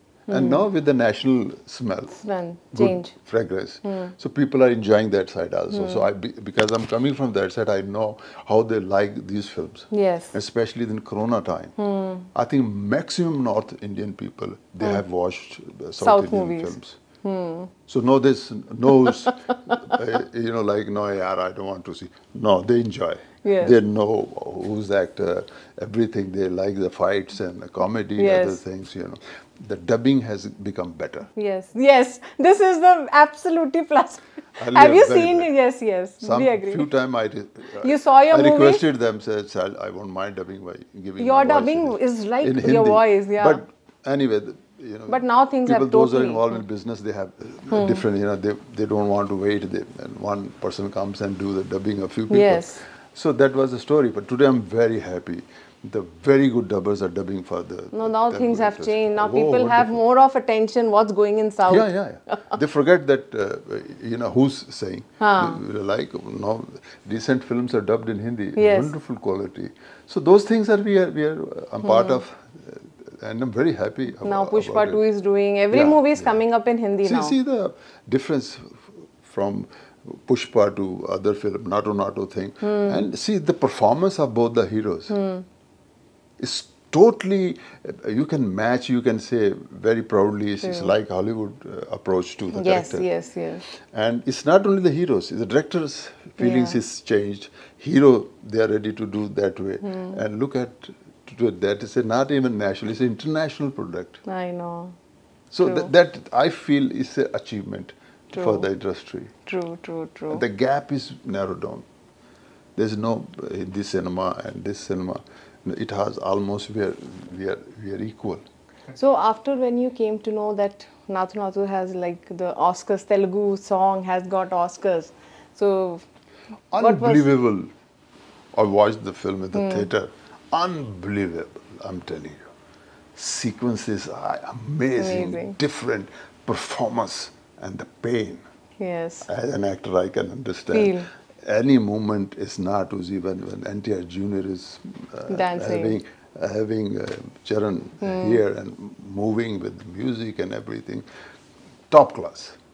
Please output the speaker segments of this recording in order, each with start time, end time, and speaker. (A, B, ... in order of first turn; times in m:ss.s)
0:00.3-0:00.6 A
0:00.3-0:02.2 B
0:02.2-0:03.2 A
0:02.7-0:11.8 B
0:03.8-0:04.1 A
0:05.7-0:06.1 A
0:09.9-0:10.3 A
0:11.8-0:12.3 A
0:12.3-0:17.0 B
0:16.0-0:17.7 A
0:17.9-0:31.3 B
0:23.4-0:23.8 A
0:28.2-0:28.6 A
0:31.4-0:36.9 A
0:34.6-0:35.5 B
0:36.2-1:00.0 B
0:37.8-0:38.8 A
0:41.2-0:43.6 A
0:45.1-0:46.6 A
0:47.7-0:48.0 A
0:52.3-0:52.8 A
0:57.9-1:02.5 A
1:01.6-1:15.0 B
1:05.2-1:05.6 A
1:08.6-1:08.9 A
1:11.8-1:12.2 A
1:14.2-1:17.4 A
1:15.7-1:16.4 B
1:17.0-1:25.1 B
1:22.6-1:23.0 A
1:25.1-1:25.4 A
1:26.4-1:33.1 B
1:30.6-1:31.0 A
1:32.5-1:33.6 A
1:33.9-1:44.2 B
1:36.4-1:36.8 A
1:39.8-1:40.2 A
1:44.2-1:45.0 A
1:45.5-1:49.3 B
1:45.6-1:45.9 A
1:48.4-1:48.7 A
1:49.5-1:50.4 A
1:50.3-1:51.8 B
1:52.8-1:58.4 B
1:58.9-2:06.0 A
2:06.7-2:07.7 B
2:06.8-2:07.3 A
2:08.5-2:12.4 B
2:09.5-2:09.9 A
2:13.2-2:18.4 B
2:15.0-2:15.6 A
2:18.8-2:19.3 A
2:19.3-2:31.0 B
2:20.7-2:21.1 A
2:25.3-2:26.0 A
2:28.0-2:28.4 A
2:31.9-2:32.6 B